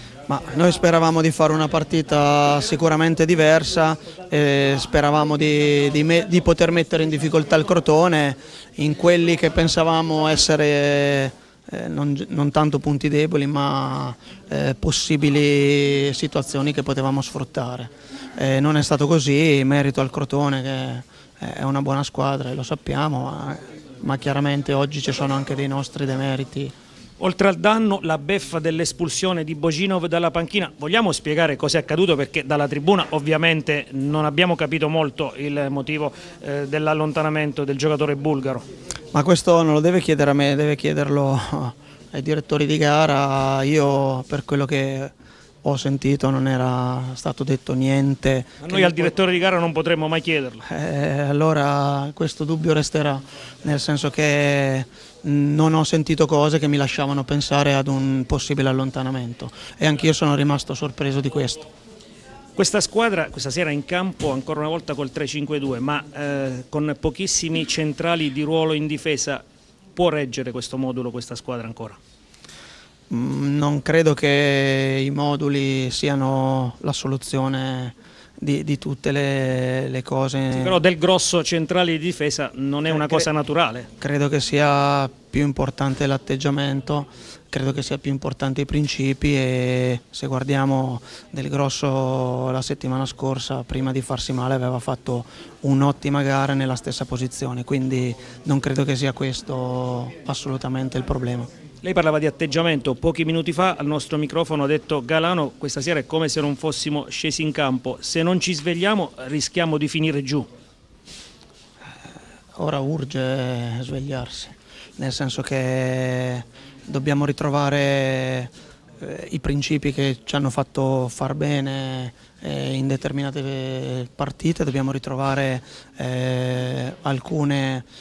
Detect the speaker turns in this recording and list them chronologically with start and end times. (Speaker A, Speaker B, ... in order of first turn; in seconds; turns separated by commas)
Speaker A: 0.3-26.7, Speaker B: 27.2-38.6, Speaker A: 39.1-45.1, Speaker A: 45.6-49.1, Speaker B: 48.6-50.6, Speaker A: 50.6-61.7, Speaker B: 62.6-69.4, Speaker B: 70.0-72.0, Speaker A: 73.1-80.8, Speaker B: 80.5-83.9, Speaker A: 82.9-83.2, Speaker A: 84.0-101.5, Speaker B: 101.8-110.5, Speaker A: 112.5-127.8